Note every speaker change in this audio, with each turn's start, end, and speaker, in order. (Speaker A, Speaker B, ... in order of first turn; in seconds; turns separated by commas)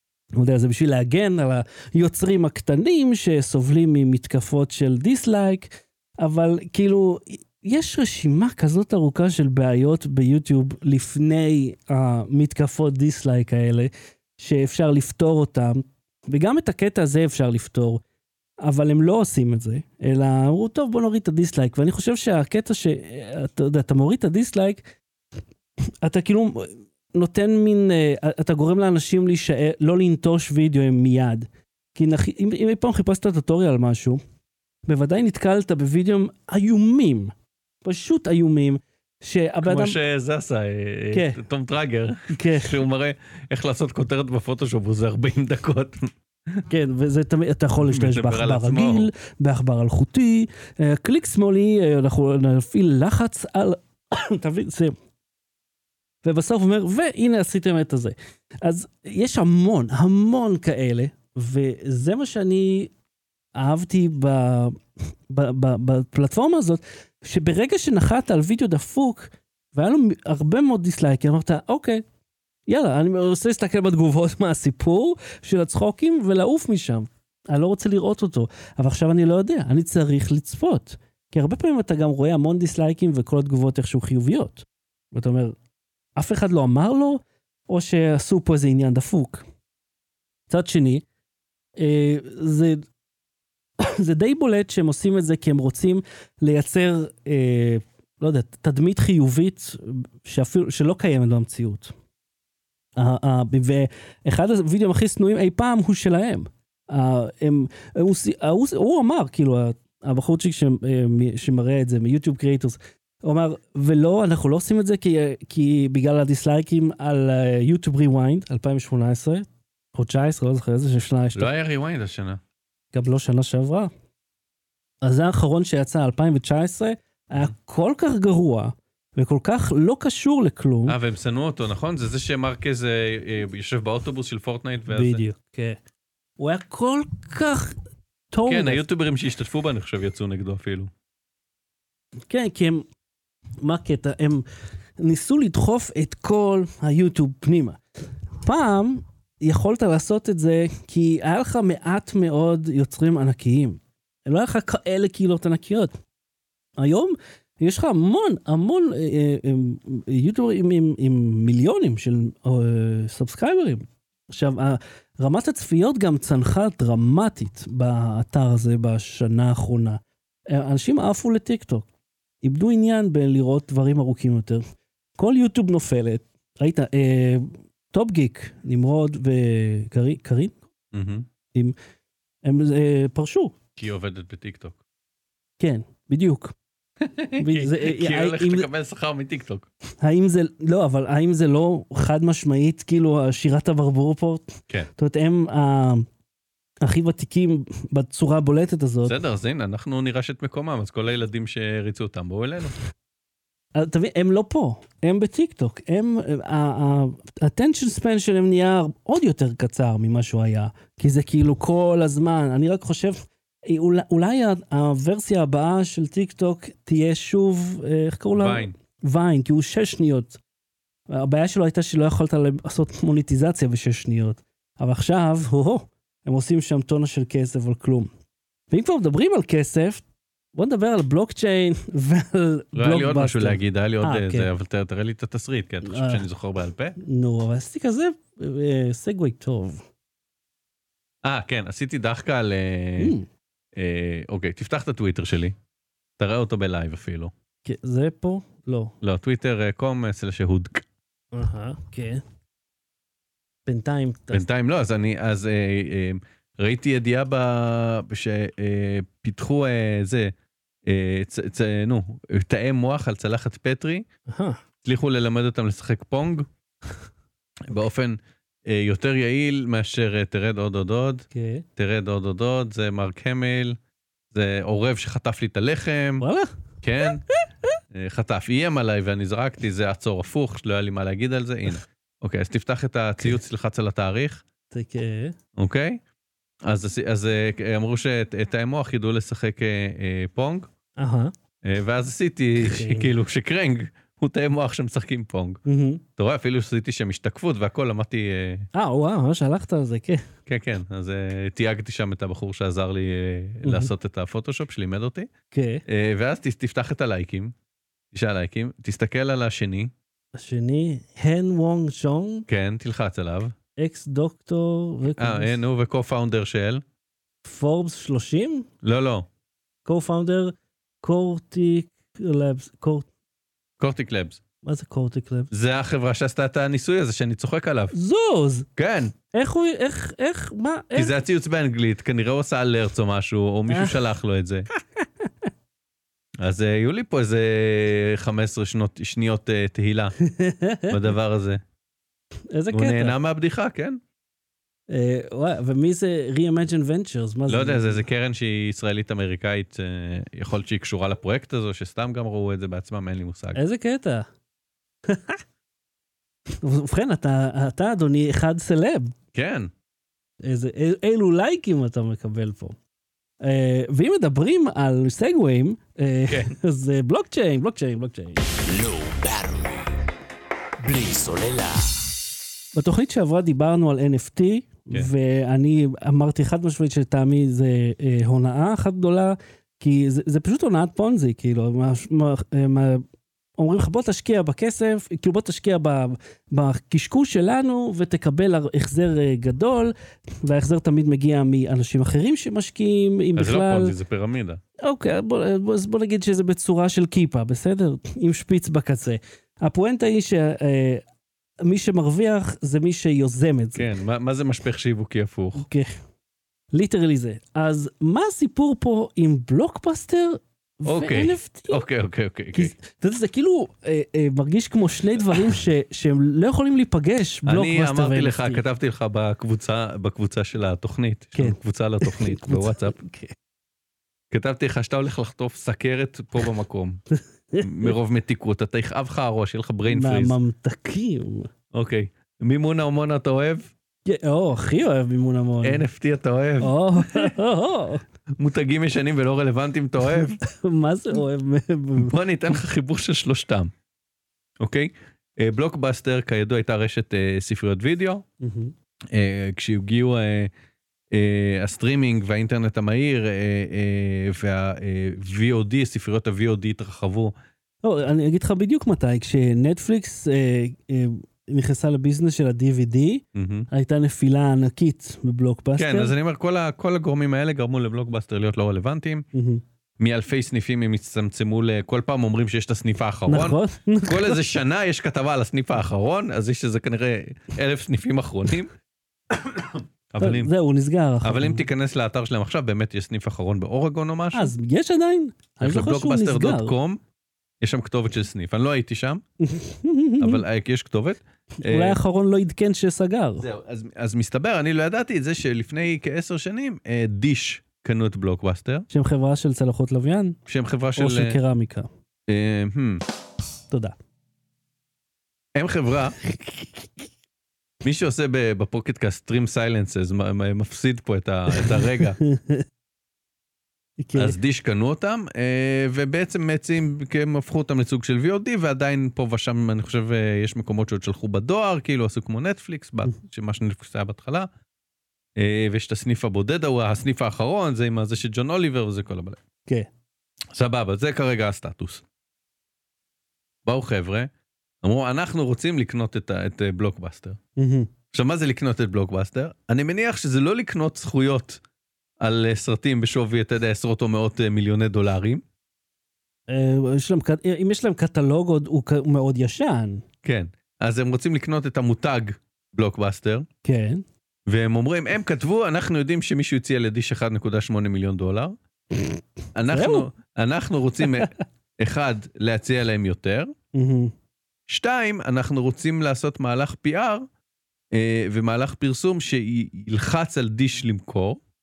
Speaker A: 0.3-18.0, Speaker A: 18.6-24.8, Speaker A: 26.0-34.2, Speaker A: 34.9-40.0, Speaker B: 39.6-46.6, Speaker A: 41.1-41.4, Speaker A: 42.3-42.8, Speaker A: 46.7-54.9, Speaker B: 47.8-49.1, Speaker A: 56.2-62.9, Speaker A: 63.5-72.0, Speaker A: 72.7-85.5, Speaker A: 86.2-89.4, Speaker A: 90.5-91.0, Speaker A: 91.8-92.8, Speaker A: 93.8-101.9, Speaker A: 103.0-121.5, Speaker B: 121.3-122.4, Speaker A: 122.9-123.9, Speaker A: 125.0-130.9, Speaker B: 130.8-135.2, Speaker A: 134.9-135.8, Speaker A: 136.4-137.8, Speaker A: 138.3-138.8, Speaker B: 138.4-140.9, Speaker A: 142.3-142.8, Speaker A: 143.6-144.4, Speaker A: 145.0-147.8, Speaker A: 148.4-155.9, Speaker A: 156.8-171.9, Speaker A: 172.4-174.6, Speaker A: 175.2-180.6, Speaker B: 180.9-181.3, Speaker A: 182.4-183.6, Speaker B: 183.8-184.8, Speaker A: 185.6-186.5, Speaker B: 187.0-189.7, Speaker A: 187.4-188.7, Speaker A: 190.0-196.1, Speaker A: 196.8-199.2, Speaker B: 199.0-202.8, Speaker A: 203.7-220.4, Speaker B: 218.3-218.7, Speaker A: 221.1-228.1, Speaker A: 228.7-230.0, Speaker A: 230.5-234.5, Speaker B: 232.7-237.0, Speaker A: 235.8-236.2, Speaker A: 237.0-239.8, Speaker B: 241.2-243.1, Speaker A: 243.0-243.3, Speaker B: 243.8-245.5, Speaker B: 246.2-247.3, Speaker A: 247.6-248.9, Speaker B: 249.0-250.8, Speaker A: 251.3-252.2, Speaker A: 253.7-254.4, Speaker B: 254.3-260.3, Speaker B: 260.9-264.1, Speaker A: 264.3-264.6, Speaker B: 264.8-266.5, Speaker B: 267.7-273.8, Speaker A: 271.3-271.6, Speaker B: 274.3-276.2, Speaker A: 276.2-276.5, Speaker B: 276.8-277.2, Speaker B: 277.9-284.4, Speaker A: 284.7-285.3, Speaker B: 285.6-286.0, Speaker B: 286.6-290.7, Speaker A: 291.0-291.3, Speaker B: 291.6-295.6, Speaker A: 292.6-293.1, Speaker A: 295.6-296.0, Speaker B: 296.2-298.7, Speaker A: 298.7-300.2, Speaker B: 300.4-305.3, Speaker A: 303.6-303.9, Speaker A: 305.5-305.8, Speaker B: 305.9-307.5, Speaker B: 308.1-309.9, Speaker A: 310.3-312.4, Speaker B: 312.5-313.5, Speaker A: 313.8-315.6, Speaker B: 315.2-316.8, Speaker A: 317.4-318.7, Speaker B: 318.8-319.3, Speaker A: 319.8-323.1, Speaker B: 323.8-324.4, Speaker A: 324.6-325.5, Speaker B: 325.5-327.9, Speaker A: 327.9-328.7, Speaker B: 328.8-329.1, Speaker A: 329.3-331.1, Speaker B: 330.9-334.7, Speaker A: 333.7-334.0, Speaker A: 335.0-335.3, Speaker B: 336.4-340.1, Speaker A: 340.2-341.0, Speaker B: 340.9-341.6, Speaker A: 342.5-343.2, Speaker B: 342.7-344.0, Speaker A: 344.9-348.0, Speaker B: 347.5-353.6, Speaker A: 353.5-354.3, Speaker A: 355.1-355.4, Speaker A: 356.6-359.1, Speaker B: 359.3-359.7, Speaker A: 360.4-362.8, Speaker A: 363.4-368.4, Speaker B: 366.3-366.5, Speaker C: 368.6-370.0, Speaker C: 370.8-372.1, Speaker A: 372.7-383.0, Speaker A: 383.6-393.9, Speaker B: 393.4-394.6, Speaker A: 394.8-401.0, Speaker A: 401.6-403.9, Speaker B: 403.7-405.6, Speaker A: 405.5-405.9, Speaker A: 406.7-411.8, Speaker B: 410.9-412.7, Speaker A: 412.5-418.6, Speaker B: 417.4-422.9, Speaker A: 421.3-423.3, Speaker B: 424.3-427.0, Speaker A: 427.5-427.9, Speaker B: 427.6-430.3, Speaker A: 429.9-431.5, Speaker B: 431.7-433.7, Speaker A: 434.1-435.8, Speaker B: 435.6-437.3, Speaker A: 436.6-438.0, Speaker B: 438.4-440.4, Speaker A: 440.2-442.1, Speaker B: 442.0-443.7, Speaker B: 444.6-448.2, Speaker A: 448.4-448.7, Speaker B: 449.1-450.5, Speaker B: 451.1-457.3, Speaker A: 457.8-466.1, Speaker B: 463.3-463.7, Speaker B: 465.8-469.2, Speaker A: 469.3-469.6, Speaker B: 470.0-478.7, Speaker A: 473.3-474.4, Speaker B: 479.3-480.5, Speaker A: 480.2-481.6, Speaker B: 481.2-484.5, Speaker A: 484.3-486.7, Speaker B: 485.6-487.0, Speaker B: 487.6-489.2, Speaker A: 489.4-490.4, Speaker B: 490.2-492.0, Speaker A: 491.6-493.4, Speaker B: 493.4-498.9, Speaker A: 498.9-500.4, Speaker B: 500.5-501.4, Speaker A: 500.9-501.9, Speaker B: 502.3-503.0, Speaker B: 505.5-506.2, Speaker B: 507.8-512.2, Speaker A: 511.5-512.6, Speaker A: 514.0-514.4, Speaker B: 514.1-524.5, Speaker B: 525.4-529.4, Speaker B: 530.5-532.0, Speaker B: 533.6-534.3, Speaker B: 534.8-537.4, Speaker A: 537.6-537.9, Speaker B: 538.1-541.6, Speaker B: 542.2-545.4, Speaker A: 546.5-550.0, Speaker B: 550.2-553.5, Speaker A: 553.6-554.0, Speaker B: 554.5-558.6, Speaker A: 559.0-560.1, Speaker B: 559.5-563.5, Speaker A: 563.7-564.1, Speaker B: 564.7-567.2, Speaker B: 567.9-571.4